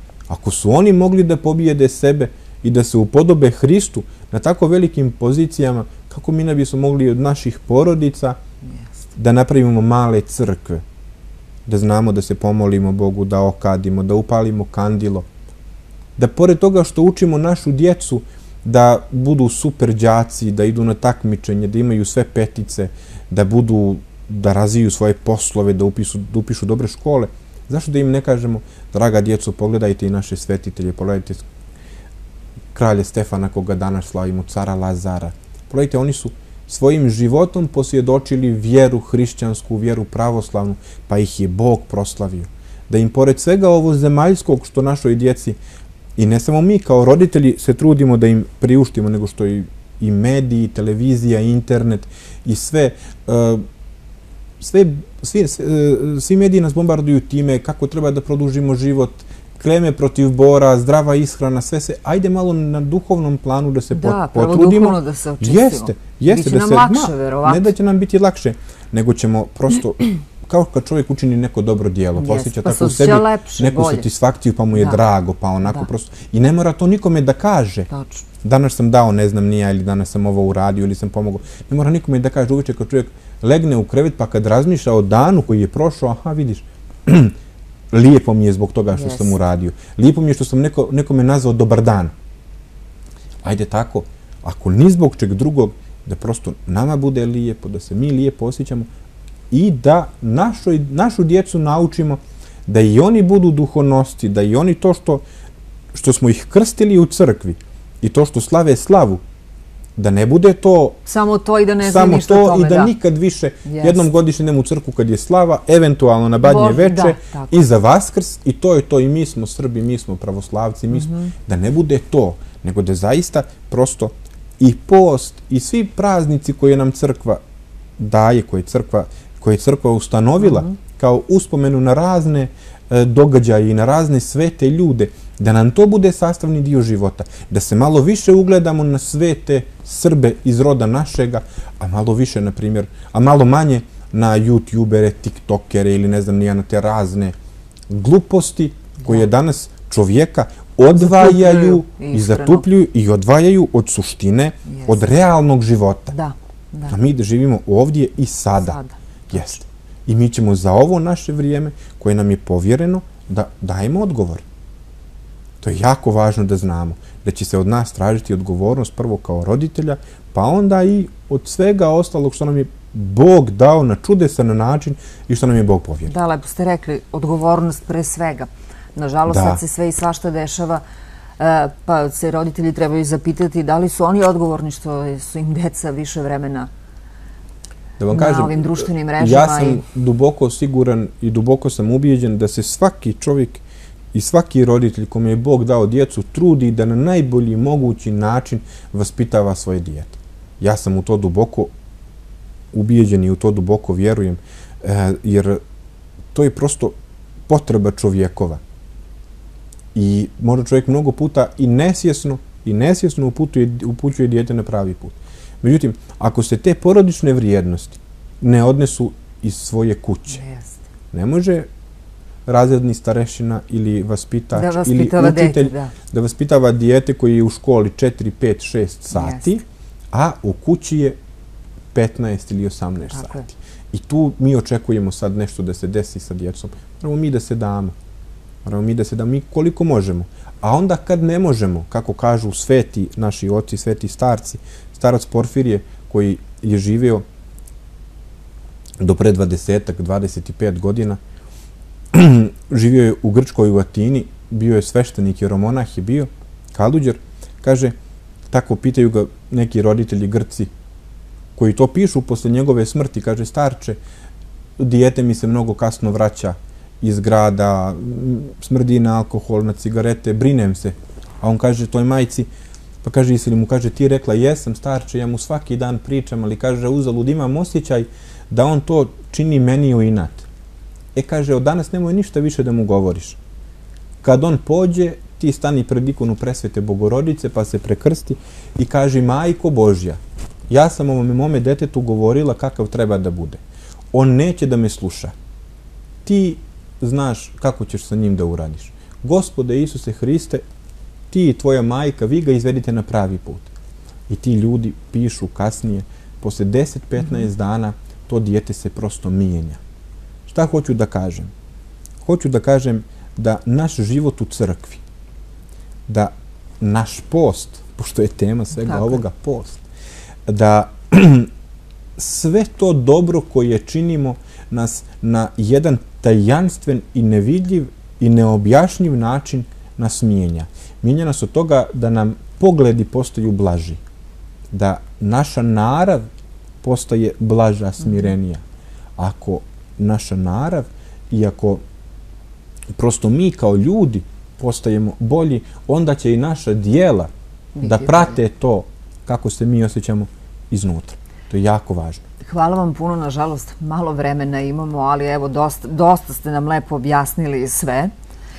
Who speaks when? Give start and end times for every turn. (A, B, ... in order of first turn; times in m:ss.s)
0:00.3-0:08.4 A
0:09.1-0:10.8 A
0:11.6-0:15.3 A
0:16.2-0:31.4 A
0:32.7-0:45.6 A
0:46.2-0:53.6 A
0:54.6-1:17.9 A
1:03.9-1:07.7 B
1:12.2-1:14.1 B
1:17.9-1:18.2 B
1:18.4-1:27.3 A
1:27.9-1:32.1 A
1:28.9-1:29.4 B
1:33.4-1:38.9 A
1:39.5-1:45.2 A
1:45.9-1:49.2 A
1:50.0-1:51.0 A
1:51.0-1:52.9 B
1:51.8-2:07.4 A
1:53.6-1:54.1 B
1:56.4-1:57.6 B
2:00.9-2:01.3 B
2:08.0-2:27.3 A
2:10.4-2:10.8 B
2:27.9-2:36.1 A
2:29.0-2:29.3 B
2:31.0-2:32.7 B
2:34.7-2:35.0 B
2:36.1-2:37.0 B
2:36.9-2:38.8 A
2:38.6-2:39.5 B
2:39.3-2:44.4 A
2:45.6-2:56.1 A
2:56.1-3:00.8 B
2:59.3-2:59.6 A
3:01.4-3:06.7 B
3:08.0-3:21.7 A
3:08.1-3:09.8 B
3:22.7-3:25.6 A
3:26.3-3:27.0 A
3:27.5-3:28.6 A
3:29.9-3:40.4 A
3:40.3-3:40.8 B
3:41.1-3:41.7 A
3:42.4-3:51.2 A
3:44.5-3:45.9 B
3:49.1-3:49.6 B
3:51.9-3:57.9 A
3:53.1-3:53.4 B
3:58.6-4:07.2 A
4:09.0-4:11.2 A
4:12.1-4:17.9 A
4:18.5-4:20.7 A
4:21.6-4:24.0 A
4:24.8-4:32.5 A
4:33.0-4:40.5 A
4:41.1-4:43.4 A
4:44.2-4:53.6 A
4:54.1-4:55.3 A
4:56.2-5:00.6 A
5:01.3-5:03.7 A
5:04.3-5:09.8 A
5:10.5-5:11.5 A
5:12.2-5:15.0 A
5:16.1-5:19.8 A
5:18.8-5:19.2 B
5:20.5-5:21.5 A
5:22.2-5:34.0 A
5:34.7-5:36.2 A
5:36.8-5:38.6 A
5:39.2-5:41.8 A
5:42.9-5:52.2 A
5:47.7-5:48.4 B
5:52.4-5:58.1 B